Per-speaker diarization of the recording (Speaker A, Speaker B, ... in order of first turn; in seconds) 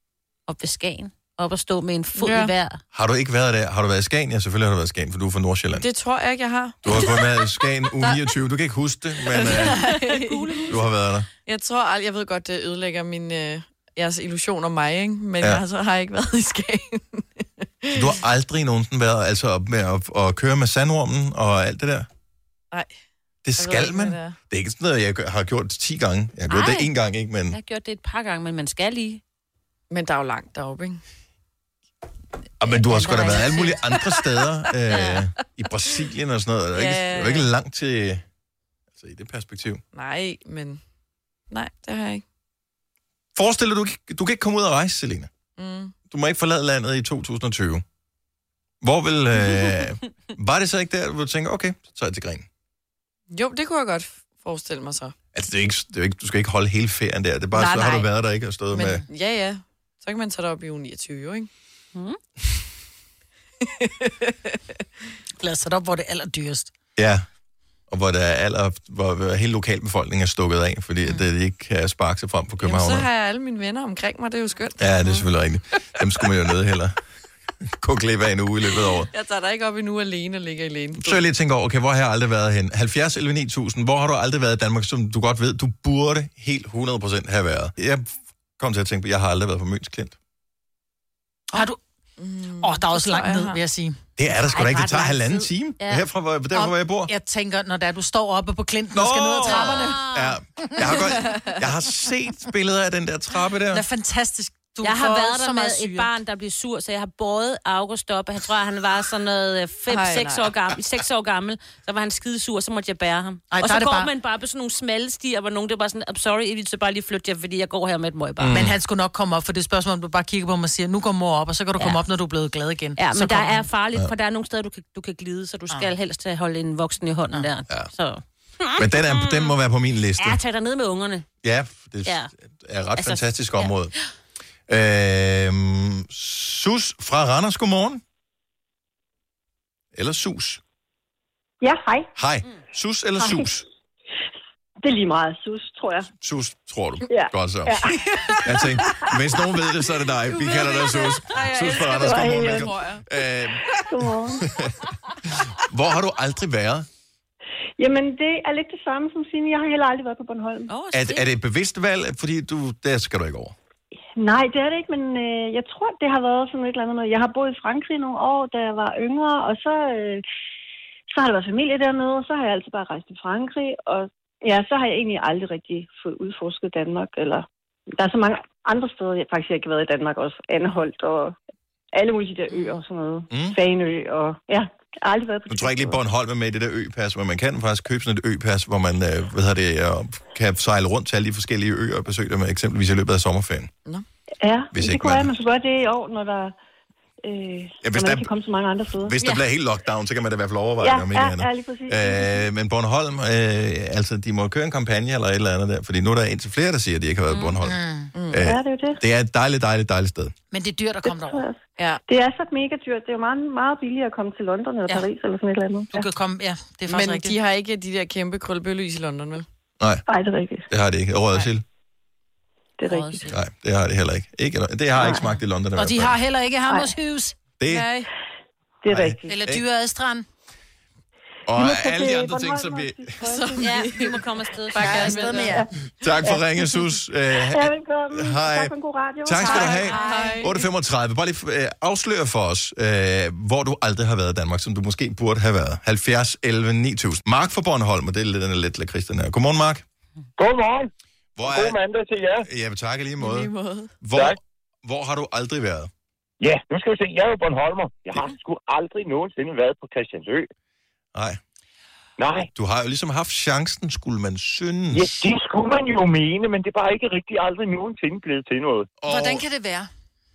Speaker A: 0.5-2.8, 9.4-10.8, 26.5-26.9, 27.5-29.2, 32.6-34.0, 34.9-35.3, 94.5-96.0, 99.4-100.3, 104.8-118.7, 123.0-129.5, 130.2-131.3, 132.0-132.3, 132.9-133.8, 207.3-207.6, 222.9-223.3, 233.6-235.6, 239.8-240.2
Speaker B: 2.1-2.5, 5.8-8.3, 9.3-10.7, 11.4-18.1, 23.6-24.4, 29.9-31.0, 36.7-37.5, 39.9-40.8, 41.5-42.2, 45.6-45.9, 53.3-55.1, 58.7-61.5, 63.8-64.6, 72.6-75.0, 79.0-81.2, 92.2-93.6, 109.9-110.5, 150.3-153.0, 208.1-208.4, 216.9-219.4, 233.2-235.5, 239.5-240.6, 253.2-253.9
Speaker C: 2.9-5.8, 6.8-9.8, 10.7-11.3, 17.9-22.1, 23.4-27.6, 32.6-38.2, 39.0-39.8, 43.3-45.3, 46.1-47.8, 48.8-52.5, 55.3-59.0, 67.0-67.2, 67.9-73.1, 74.8-77.0, 77.6-79.1, 81.0-90.2, 94.2-97.1, 98.9-103.8, 118.4-118.7, 128.8-130.4, 131.4-133.9, 134.7-138.0, 139.9-140.6, 142.2-143.6, 146.2-147.9, 148.4-153.7, 154.4-156.9, 160.9-163.5, 183.3-183.6, 185.5-193.7, 194.7-195.4, 197.8-198.3, 199.0-207.8, 208.3-210.3, 220.7-221.6, 223.3-226.1, 227.6-227.9, 228.9-229.6, 231.4-233.2, 236.0-249.8, 251.4-251.8, 252.4-255.9, 261.1-261.4, 262.5-265.3, 269.0-269.4
Speaker D: 57.5-58.0, 65.4-66.7, 91.5-91.8, 92.6-94.0, 96.5-100.0, 100.6-100.9, 103.7-106.1, 113.5-114.1, 118.5-123.7, 207.6-208.1, 210.5-211.5, 215.9-217.3, 225.8-228.1, 229.3-230.2, 234.7-235.6, 239.4-240.4, 269.1-269.9
Speaker E: 141.6-142.1, 143.2-143.5, 144.8-146.1, 147.1-148.7, 152.0-152.7, 153.8-154.5, 157.8-160.7, 164.2-170.2, 171.1-177.4, 178.0-181.3, 181.9-186.0, 194.4-196.5, 197.2-199.2, 200.8-202.4, 208.4-209.0, 211.0-216.1, 220.1-220.7, 222.8-223.3, 225.0-225.3, 228.8-229.4, 231.5-233.7, 235.3-235.7, 237.4-239.9
Speaker F: 250.4-250.9, 251.4-252.5, 254.1-254.4, 256.4-260.5, 262.2-262.5, 264.9-268.9